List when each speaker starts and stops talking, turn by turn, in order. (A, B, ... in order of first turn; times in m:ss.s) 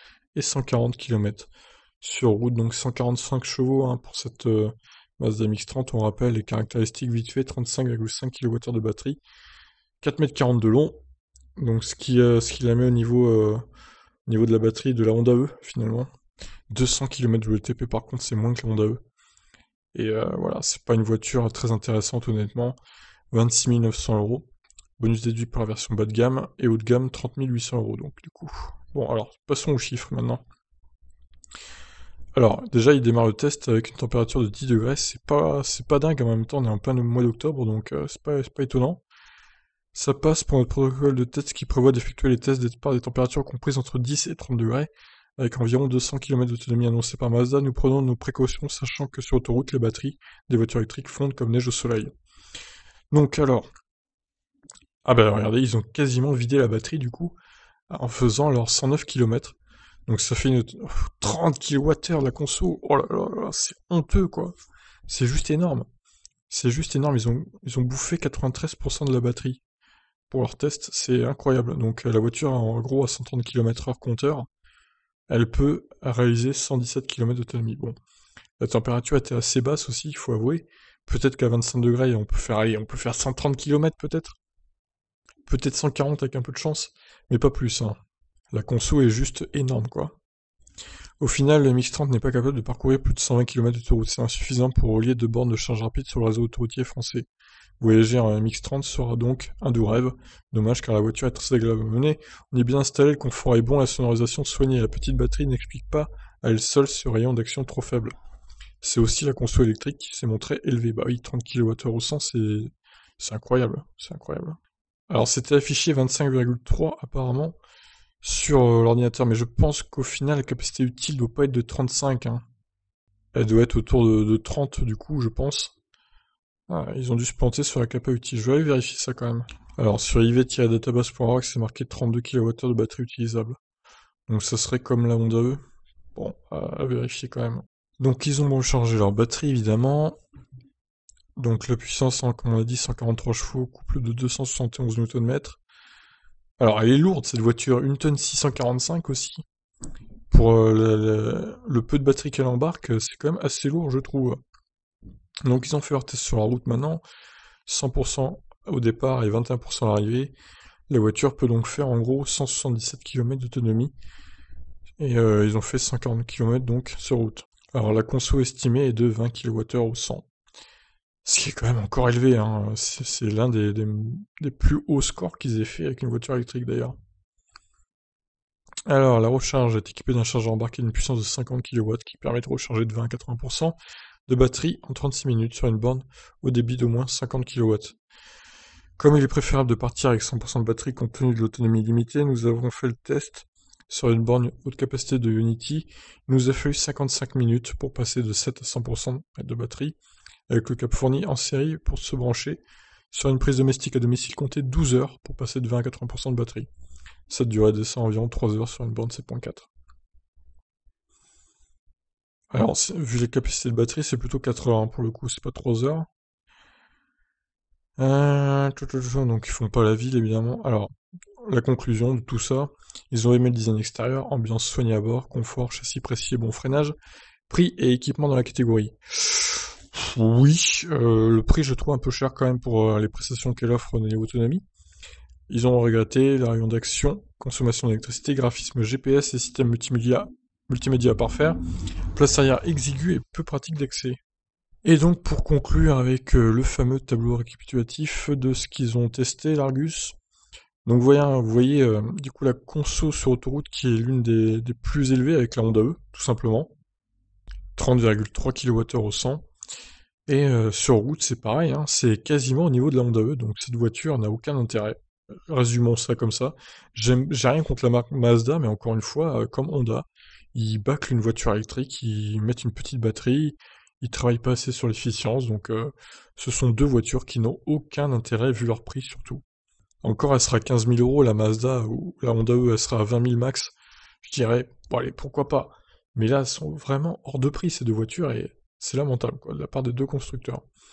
0:00.3-0:01.5 A
0:02.0-0:09.2 A
0:10.0-0:11.0 A
0:11.6-0:13.6 A
0:14.2-0:16.1 A
0:16.7-0:19.0 A
0:19.9-0:22.8 A
0:23.3-0:24.5 A
0:25.0-0:30.4 A
0:32.3-0:39.0 A
0:39.9-0:52.1 A
0:53.1-0:53.7 A
0:55.0-0:57.3 A
0:57.9-1:04.6 A
1:05.1-1:05.9 A
1:06.5-1:09.6 A
1:10.3-1:14.5 A
1:15.3-1:18.0 A
1:18.6-1:24.4 A
1:25.4-1:28.0 A
1:28.5-1:30.2 A
1:31.2-1:37.2 A
1:37.8-1:48.1 A
1:48.8-1:54.6 A
1:55.1-1:57.6 A
1:58.2-2:02.4 A
2:03.3-2:05.7 A
2:06.7-2:13.6 A
2:14.3-2:15.6 A
2:16.1-2:20.2 A
2:21.4-2:25.6 A
2:26.6-2:29.4 A
2:30.3-2:34.4 A
2:35.4-2:37.0 A
2:37.6-2:40.3 A
2:40.9-2:43.9 A
2:45.0-2:50.2 A
2:51.2-2:56.9 A
2:58.9-3:07.9 A
3:09.0-3:20.0 A
3:20.5-3:26.7 A
3:27.3-3:29.7 A
3:32.5-3:36.1 A
3:38.0-3:40.9 A
3:41.4-3:46.9 A
3:47.5-3:54.6 A
3:55.5-4:01.6 A
4:02.1-4:04.2 A
4:04.8-4:10.2 A
4:10.8-4:16.7 A
4:17.8-4:19.4 A
4:20.3-4:39.4 A
4:40.0-4:50.6 A